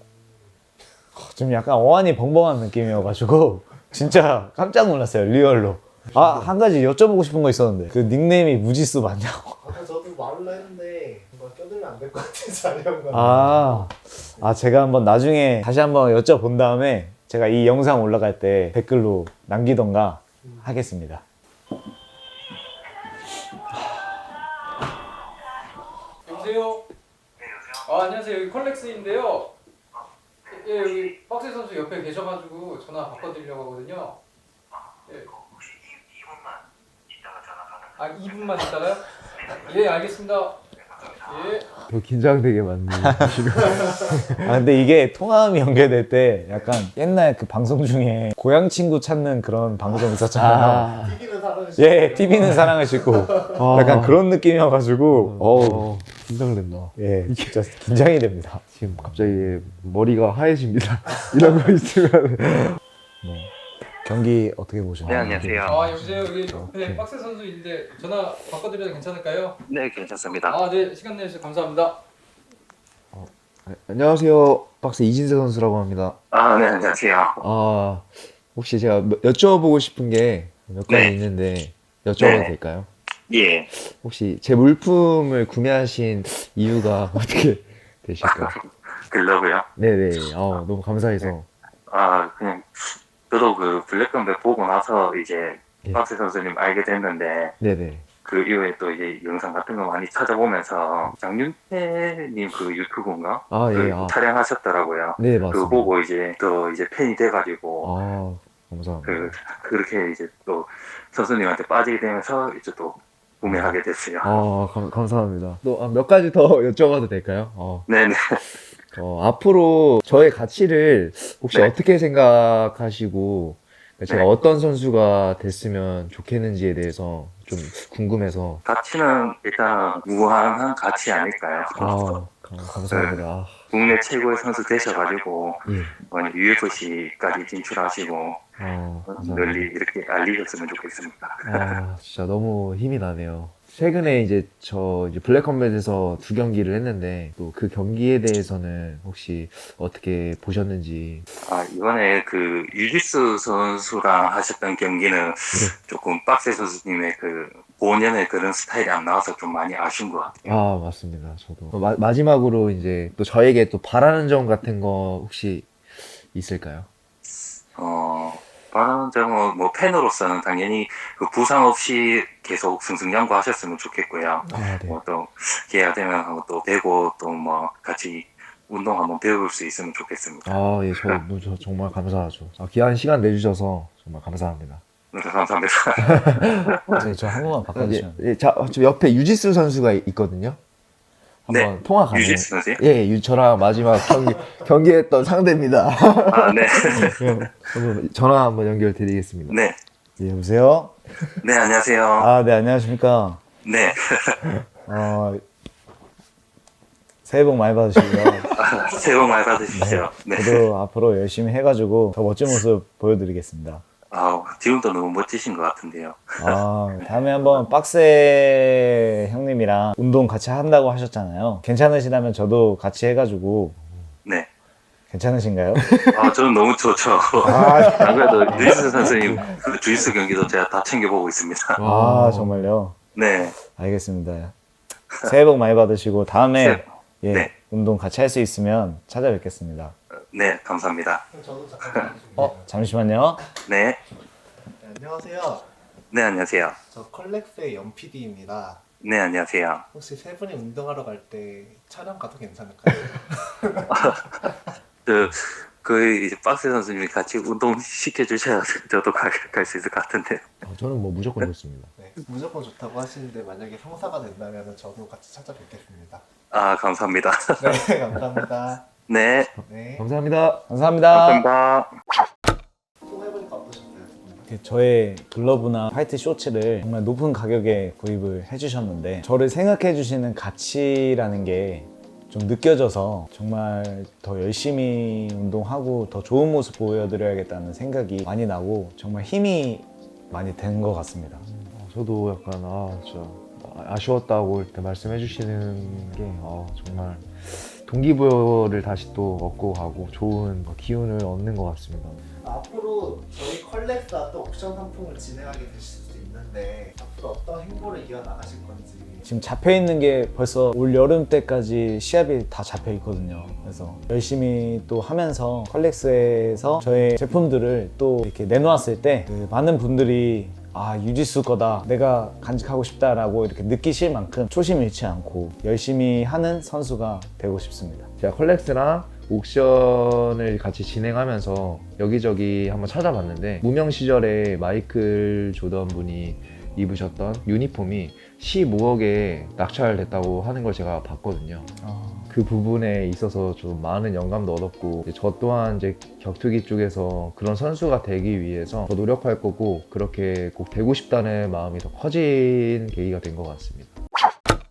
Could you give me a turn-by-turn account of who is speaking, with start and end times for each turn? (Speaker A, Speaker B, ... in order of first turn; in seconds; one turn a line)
Speaker A: 1.1-9.7
Speaker B: 9.6-13.9
Speaker A: 13.1-21.2
Speaker C: 26.2-26.9
Speaker C: 27.7-29.5
Speaker C: 30.5-34.2
Speaker C: 35.1-35.3
Speaker D: 36.2-36.5
Speaker D: 37.2-37.9
Speaker C: 38.0-40.6
Speaker C: 41.2-41.7
Speaker E: 41.8-44.5
Speaker A: 44.4-50.9
Speaker E: 50.3-51.2
Speaker B: 50.9-53.7
Speaker A: 51.8-55.9
Speaker E: 52.4-52.7
Speaker E: 53.5-54.2
Speaker E: 55.1-57.6
Speaker A: 57.0-58.6
Speaker E: 58.7-63.5
Speaker A: 64.0-65.6
Speaker D: 65.0-65.8
Speaker E: 65.2-67.0
Speaker C: 65.6-69.6
Speaker D: 69.7-70.6
Speaker C: 70.5-72.0
Speaker E: 73.1-76.2
Speaker D: 76.3-77.4
Speaker E: 77.4-82.9
Speaker D: 80.9-81.1
Speaker D: 82.2-82.5
Speaker D: 83.3-83.7
Speaker E: 83.8-88.5
Speaker D: 88.2-89.7
Speaker E: 89.8-91.5
Speaker D: 91.9-97.5
Speaker E: 97.6-98.0
Speaker D: 98.2-107.9
Speaker E: 103.5-104.2
Speaker E: 105.2-105.9
Speaker E: 107.8-109.4
Speaker D: 109.0-114.4
Speaker E: 113.4-117.9
Speaker D: 117.9-118.5
Speaker E: 118.9-128.6
Speaker D: 128.6-132.2
Speaker E: 131.8-133.6
Speaker D: 132.9-133.2
Speaker D: 133.7-138.4
Speaker E: 135.7-136.0
Speaker E: 138.6-139.7
Speaker D: 139.1-141.8
Speaker E: 141.4-151.2
Speaker D: 151.4-160.3
Speaker E: 160.4-166.9
Speaker D: 167.7-181.2
Speaker E: 174.5-174.8
Speaker A: 174.5-175.0
Speaker E: 180.4-184.8
Speaker D: 185.1-187.0
Speaker E: 186.0-187.1
Speaker A: 186.9-188.2
Speaker E: 187.7-190.6
Speaker E: 191.5-199.6
Speaker D: 191.5-192.8
Speaker D: 196.3-197.2
Speaker D: 199.5-199.8
Speaker A: 200.2-200.9
Speaker D: 201.4-202.3
Speaker A: 202.2-203.4
Speaker D: 203.6-204.4
Speaker A: 204.9-205.4
Speaker A: 207.2-208.5
Speaker D: 208.5-210.6
Speaker A: 209.7-213.8
Speaker D: 214.1-216.6
Speaker A: 216.4-223.8
Speaker A: 225.1-225.9
Speaker E: 225.8-226.3
Speaker D: 226.1-231.8
Speaker A: 227.4-228.9
Speaker E: 227.4-229.6
Speaker E: 231.8-232.7
Speaker A: 231.8-233.0
Speaker D: 233.1-233.5
Speaker A: 233.6-234.5
Speaker A: 235.2-239.9
Speaker D: 236.6-237.5
Speaker D: 240.3-241.2
Speaker B: 241.3-242.7
Speaker A: 242.4-243.4
Speaker D: 243.6-244.0
Speaker B: 244.8-245.7
Speaker D: 246.1-246.8
Speaker B: 246.9-248.8
Speaker D: 249.0-249.8
Speaker B: 249.9-254.5
Speaker D: 253.9-254.4
Speaker D: 255.0-260.4
Speaker E: 260.6-261.9
Speaker B: 261.9-266.2
Speaker D: 266.5-267.8
Speaker B: 267.6-268.9
Speaker D: 269.1-269.5
Speaker B: 269.6-270.1
Speaker E: 270.0-270.6
Speaker A: 270.7-271.4
Speaker D: 271.1-271.9
Speaker B: 273.1-274.5
Speaker A: 274.5-291.4
Speaker E: 291.5-302.2
Speaker B: 302.4-309.2
Speaker A: 309.2-328.1
Speaker E: 328.2-341.7
Speaker A: 341.8-342.3
Speaker E: 342.3-353.9